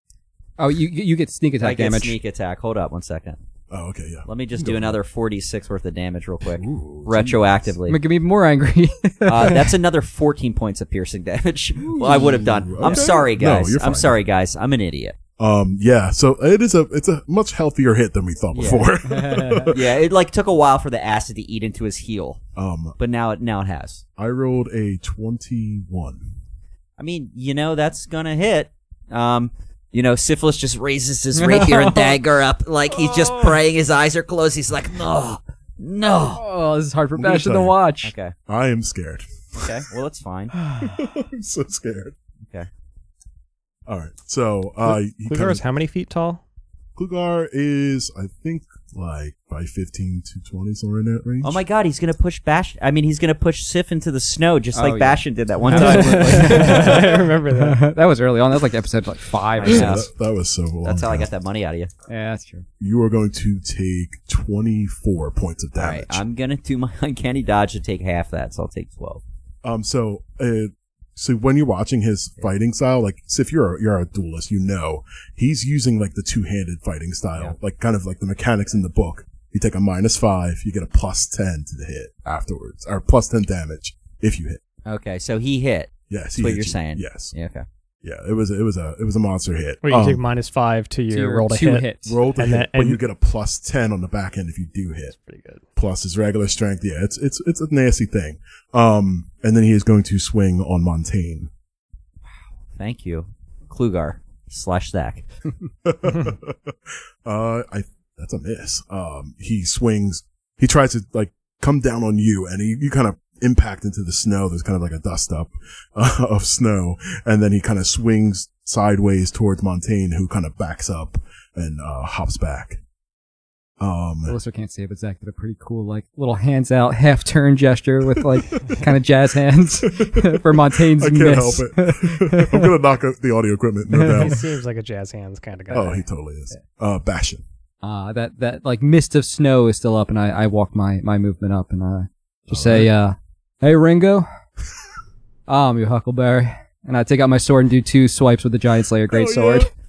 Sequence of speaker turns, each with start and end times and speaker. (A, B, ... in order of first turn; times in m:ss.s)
0:00.6-0:02.2 A
0:01.6-0:03.4 B
0:03.7-0:05.0 C
0:04.3-0:08.0 B
0:06.4-0:07.8 C
0:07.9-0:09.7 A
0:09.3-0:15.2 B
0:11.9-0:13.1 A
0:11.9-0:14.2 C
0:15.4-0:20.0 C
0:18.5-0:18.9 B
0:19.0-0:19.7 A
0:19.7-0:22.4 B
0:22.6-0:23.0 C
0:23.0-0:24.0 B
0:24.2-0:26.3 C
0:27.0-0:36.4 B
0:31.3-0:32.2 A
0:32.9-0:33.6 A
0:36.3-0:38.1 A
0:37.2-0:37.8 C
0:38.0-0:38.3 B
0:38.5-0:39.9 C
0:39.6-0:40.5 B
0:40.5-0:41.0 A
0:40.8-0:42.1 C
0:43.9-0:45.6 C
0:44.9-0:46.4 D
0:47.0-0:51.6 C
0:51.4-0:57.0 B
0:54.7-1:00.0 A
0:55.7-0:57.8 D
0:59.6-1:00.1 B
0:59.6-1:01.3 C
1:00.8-1:01.9 B
1:02.1-1:02.7 A
1:02.8-1:06.2 C
1:05.8-1:09.2 B
1:09.6-1:24.6 C
1:24.9-1:27.7 B
1:26.1-1:27.3 C
1:28.0-1:30.2 C
1:29.8-1:33.0 D
1:31.1-1:32.2 A
1:32.0-1:35.1 C
1:35.1-1:35.6 D
1:35.8-1:41.5 C
1:42.7-1:45.2 B
1:45.8-2:02.8 C
2:03.8-2:04.4 C
2:04.3-2:12.7 A
2:08.2-2:08.8 C
2:09.8-2:14.4 C
2:13.9-2:16.0 D
2:15.7-2:17.4 C
2:17.8-2:24.3 A
2:22.5-2:22.9 C
2:25.5-2:29.7 A
2:29.1-2:29.7 C